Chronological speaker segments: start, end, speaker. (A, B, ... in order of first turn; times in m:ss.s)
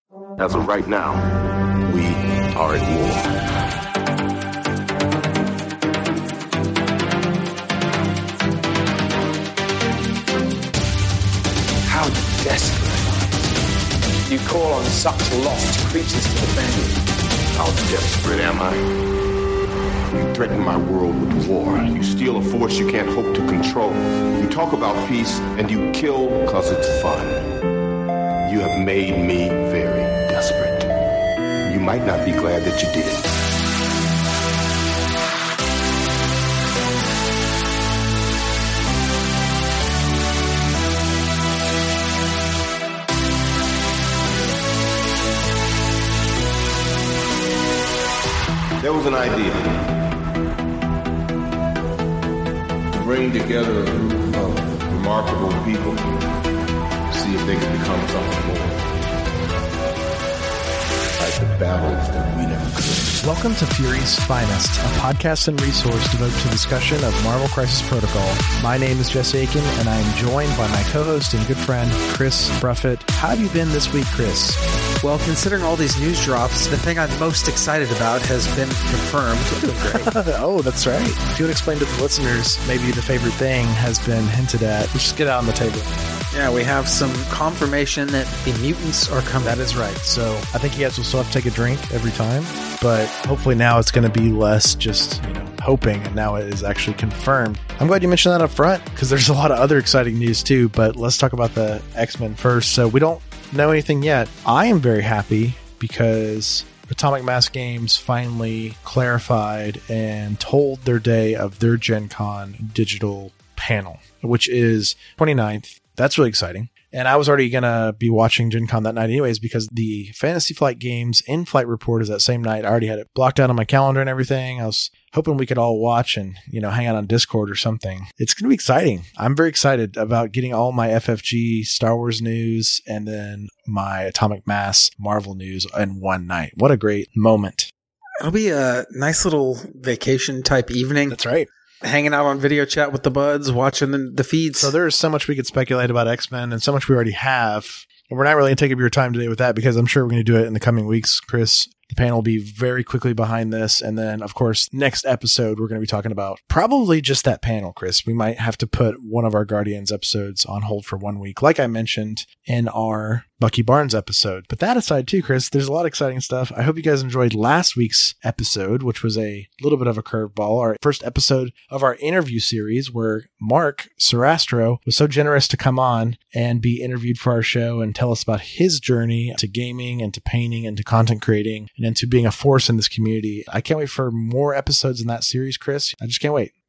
0:00.4-0:03.3 A
0:11.8-0:13.3 B
0:14.2-0:17.0 B
0:17.5-0:19.0 A
0:20.1-0:27.5 A
0:28.4-0:30.9 A
0:31.6-0:33.3 A
0:48.8-0:50.1 A
0:52.9-0:56.2 A
0:57.1-0:58.8 A
1:01.2-1:03.2 A
1:03.2-1:14.6 C
1:15.0-1:20.1 D
1:19.6-1:26.0 C
1:26.3-1:29.6 D
1:29.4-2:17.7 C
2:18.2-2:21.2 D
2:21.1-2:21.5 C
2:21.8-2:24.7 D
2:24.5-3:06.5 C